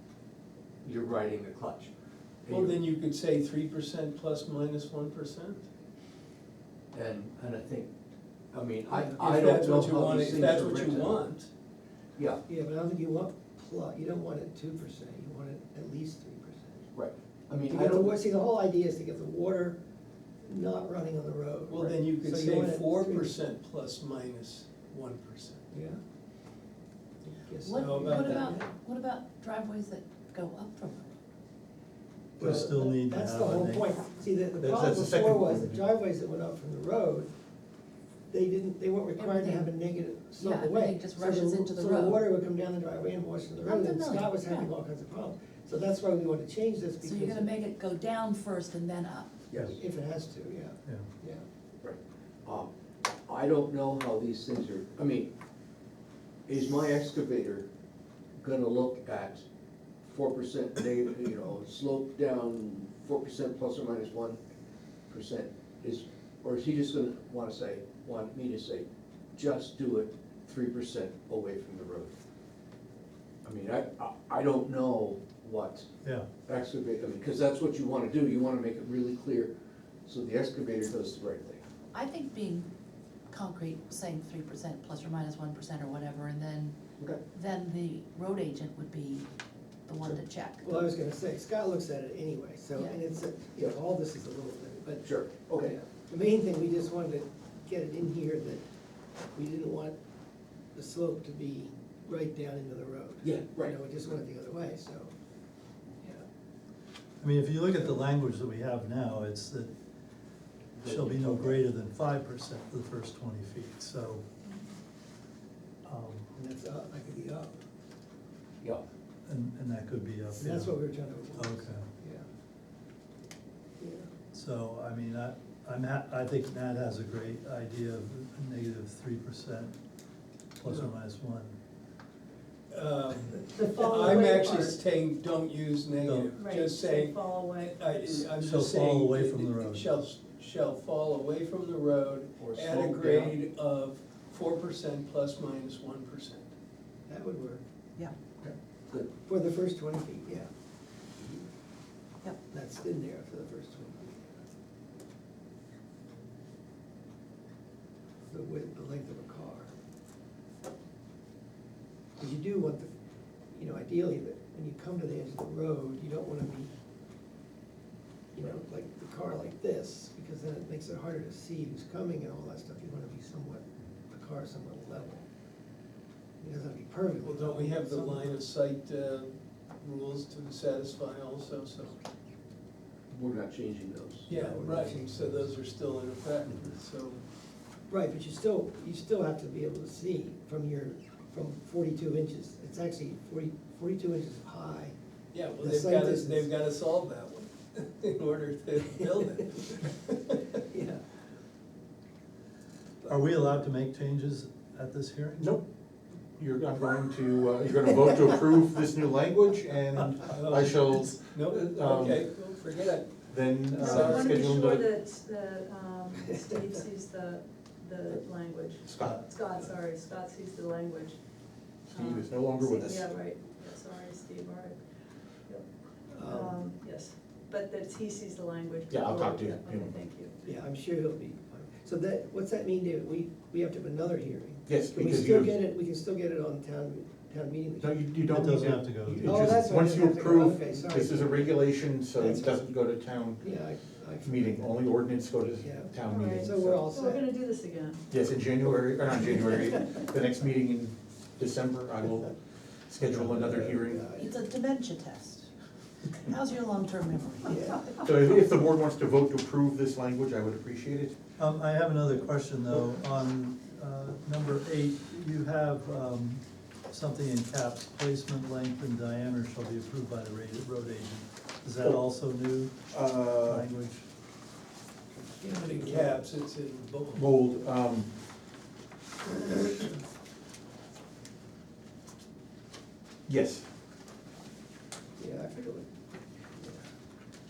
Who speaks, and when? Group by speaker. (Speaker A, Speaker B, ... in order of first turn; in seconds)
Speaker A: 0.8-1.9, 2.4-2.8, 6.9-7.9, 8.5-11.2, 16.9-18.2, 49.5-49.8, 51.8-52.7, 53.3-55.3, 56.5-57.7, 58.4-59.4, 60.0-64.4, 65.1-72.2, 73.4-75.9, 76.5-79.5, 80.1-81.6, 95.0-95.8, 103.2-103.8, 110.8-111.6, 142.4-143.4, 148.4-149.1, 183.1-184.3
Speaker B: 2.5-5.6, 8.9-11.5, 21.7-25.6, 27.7-28.6, 132.7-146.5, 177.2-182.0, 184.3-187.2, 195.3-200.4, 210.3-213.1, 213.8-214.3, 275.5-277.3
Speaker C: 12.5-16.9, 17.7-19.8, 20.4-23.3, 25.7-26.0, 27.2-28.7, 32.4-37.3, 38.3-47.5, 49.7-51.4, 90.1-98.6, 99.3-100.0, 100.8-105.1, 116.3-117.5, 120.4-122.2, 123.8-124.1, 147.1-147.6, 149.2-150.5, 152.5-154.4, 158.3-159.7, 162.2-162.9, 163.5-166.7, 168.3-175.3, 176.4-178.3, 184.3-185.5, 187.9-194.9, 195.6-196.5, 200.6-201.0, 226.1-226.6, 230.4-238.0, 239.2-241.6, 242.2-242.6, 243.4-245.0, 245.6-247.3, 253.2-254.3, 257.5-258.0, 275.3-276.1, 285.2-285.9, 286.6-286.8
Speaker D: 27.6-31.1, 39.2-39.7, 40.4-42.2, 43.6-44.7, 47.0-49.4, 81.9-82.7, 83.3-86.8, 87.3-89.3, 89.9-90.8, 254.1-255.5, 256.1-258.0
Speaker E: 32.4-33.9, 107.2-109.7, 110.8-114.2, 115.8-116.3, 119.3-120.8, 121.3-121.9, 124.3-129.7, 130.6-131.6, 136.0-136.3, 138.4-139.9, 203.1-205.5, 219.0-219.3, 238.3-239.6, 261.4-272.9, 273.4-274.1
Speaker F: 34.6-35.8, 205.4-205.7, 206.4-212.3, 213.3-214.9, 218.8-219.2, 221.9-223.1, 228.9-230.0, 234.7-235.6, 237.8-243.4, 244.2-246.8, 248.1-252.3, 252.9-254.1, 258.1-261.2, 272.9-273.7, 277.1-278.1, 283.3-283.7
Speaker G: 133.5-134.8, 136.4-138.3, 213.8-221.2, 221.9-224.8, 226.2-230.3, 246.1-248.0